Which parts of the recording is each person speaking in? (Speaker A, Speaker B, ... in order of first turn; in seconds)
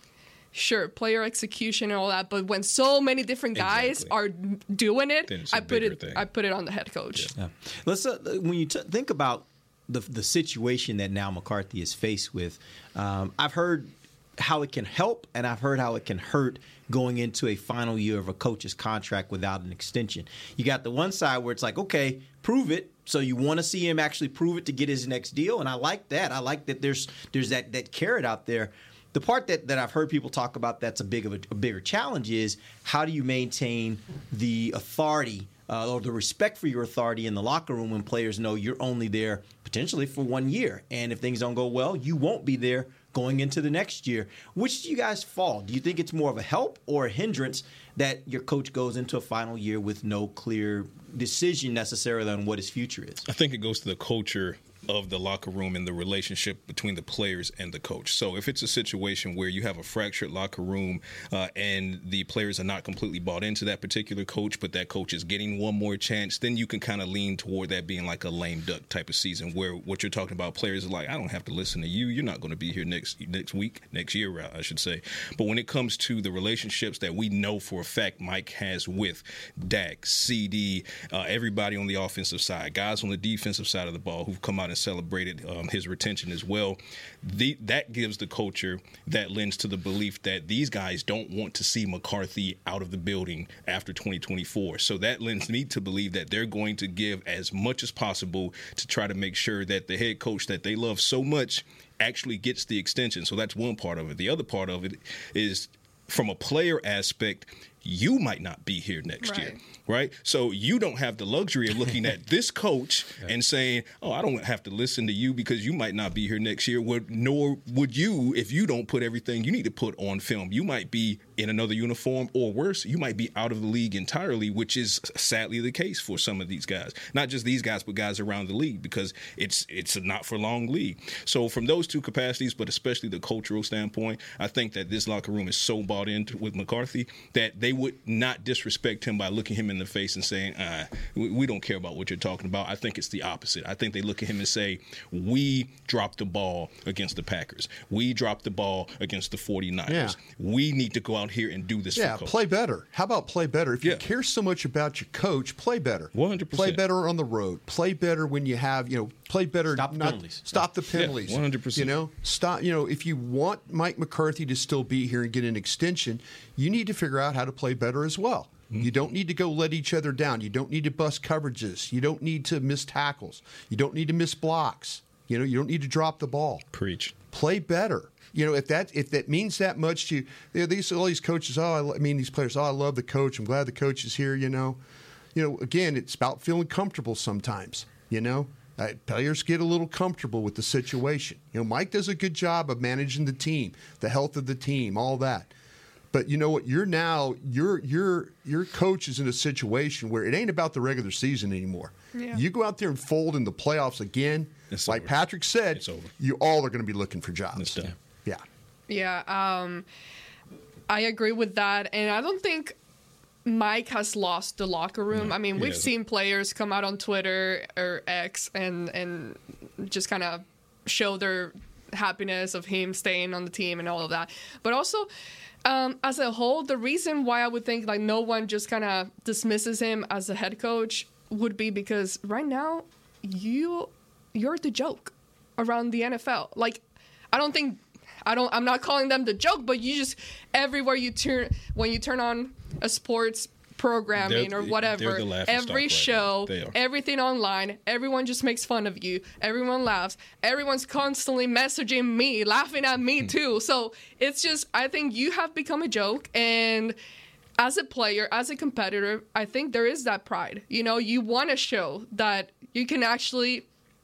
Speaker A: 0.5-7.3, 109.2-109.6, 202.1-202.4, 208.9-209.8, 210.9-212.8, 213.4-225.1, 225.6-257.0, 257.6-263.6
Speaker B: 3.5-4.2, 5.3-6.3, 53.2-152.3, 156.1-156.8, 160.9-162.0, 176.7-177.1, 204.7-206.1, 207.6-207.9, 215.1-215.9, 244.2-246.8
Speaker C: 7.3-53.2, 159.7-160.4
Speaker D: 149.9-150.2, 151.9-176.6, 177.3-184.8, 185.3-195.5, 196.1-208.4